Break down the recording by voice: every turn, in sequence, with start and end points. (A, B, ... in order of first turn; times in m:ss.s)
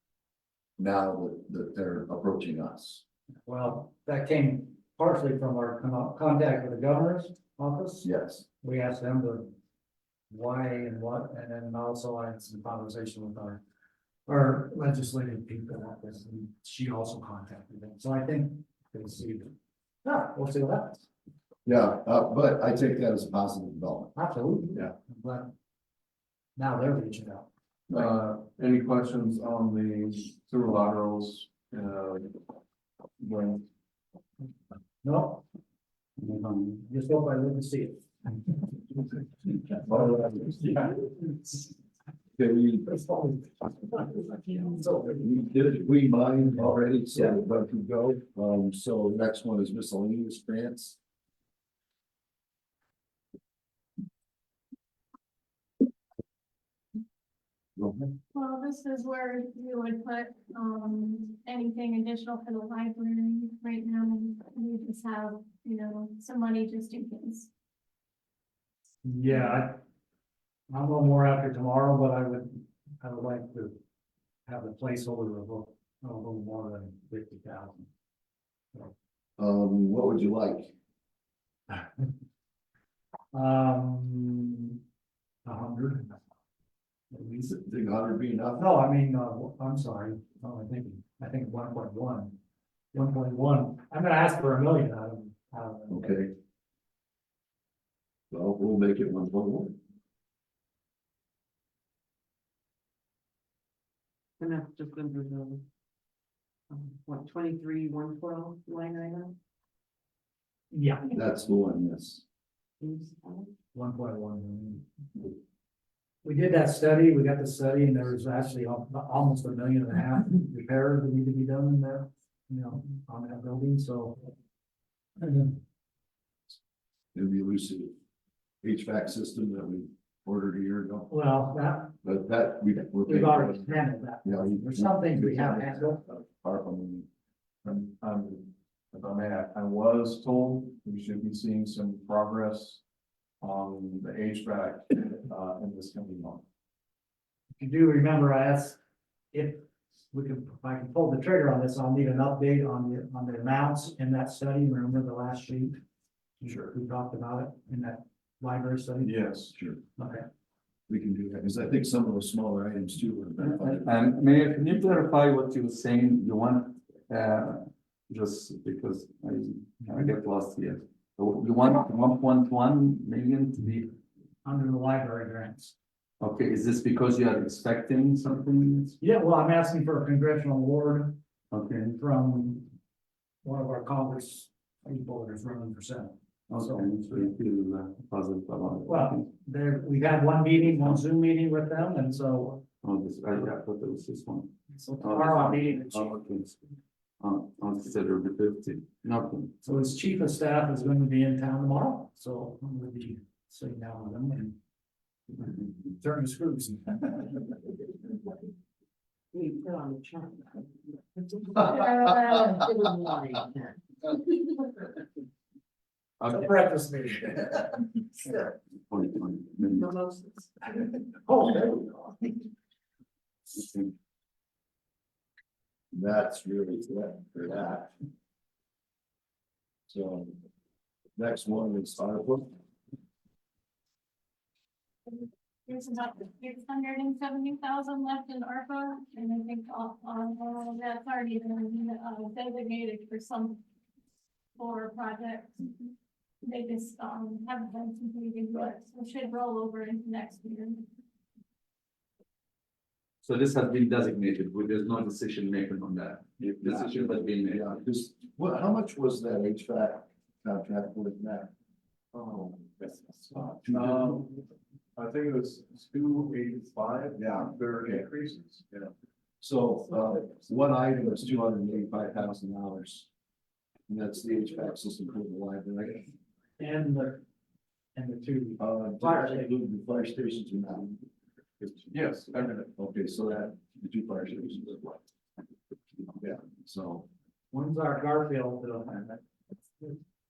0:00.8-0:03.0 A
0:03.5-0:08.1 B
0:08.0-0:08.4 A
0:08.6-0:09.6 B
0:10.3-0:13.6 B
0:14.3-0:21.0 B
0:21.7-0:24.1 A
0:24.2-0:25.5 B
0:26.6-0:27.5 B
0:27.9-0:32.4 C
0:33.2-0:33.6 C
0:35.0-0:35.4 B
0:36.2-0:36.8 D
0:36.8-0:38.6 B
0:39.8-0:41.3 B
0:39.9-0:40.5 A
0:42.4-0:43.1 A
0:43.0-0:45.3 B
0:45.2-0:51.0 A
0:58.3-1:07.5 E
1:09.0-1:09.8 B
1:10.7-1:13.8 B
1:14.5-1:17.9 B
1:19.4-1:20.7 A
1:23.3-1:24.8 B
1:25.4-1:26.2 B
1:27.1-1:27.4 B
1:27.4-1:28.7 A
1:28.6-1:32.4 B
1:32.9-1:36.3 B
1:35.9-1:36.3 A
1:38.3-1:39.8 A
1:44.4-1:45.7 F
1:46.7-1:49.4 F
1:50.7-1:51.1 B
1:51.1-1:52.2 A
1:52.8-1:53.6 F
1:53.7-1:54.8 B
1:56.2-2:04.3 B
2:05.2-2:05.6 B
2:07.2-2:08.0 A
2:08.6-2:11.1 A
2:11.1-2:11.9 B
2:12.0-2:17.1 A
2:13.1-2:16.0 B
2:17.6-2:22.8 C
2:23.4-2:26.4 C
2:27.6-2:28.8 B
2:29.3-2:35.8 B
2:36.4-2:39.2 B
2:39.0-2:39.6 C
2:40.0-2:40.3 B
2:40.9-2:44.0 A
2:43.4-2:54.0 D
2:54.4-2:55.8 B
2:56.2-2:59.0 D
2:59.0-3:01.2 B
3:01.5-3:02.0 D
3:02.0-3:02.7 B
3:03.4-3:07.3 B
3:06.5-3:09.3 D
3:08.9-3:12.6 B
3:12.8-3:16.6 D
3:14.8-3:16.2 B
3:17.2-3:19.5 D
3:19.6-3:24.6 B
3:25.9-3:27.6 B
3:29.3-3:30.6 F
3:31.2-3:34.6 F
3:36.2-3:37.7 B
3:38.9-3:39.8 D
3:39.6-3:40.8 F
3:41.2-3:42.2 B
3:43.6-3:43.9 D
3:45.9-3:47.9 A
3:49.9-3:50.4 A
3:51.2-3:52.6 A
3:55.1-4:03.6 E
4:04.6-4:05.9 E
4:06.4-4:10.9 E
4:13.2-4:17.8 D
4:16.4-4:21.5 A
4:22.1-4:24.3 C
4:23.3-4:24.2 A
4:25.0-4:28.9 C
4:27.2-4:28.1 A
4:29.4-4:33.1 A
4:33.9-4:36.1 A
4:36.6-4:37.2 B
4:38.0-4:39.5 B
4:38.6-4:41.0 A
4:41.9-4:42.7 C
4:42.7-4:45.0 A
4:46.2-4:47.1 A
4:47.5-4:49.2 B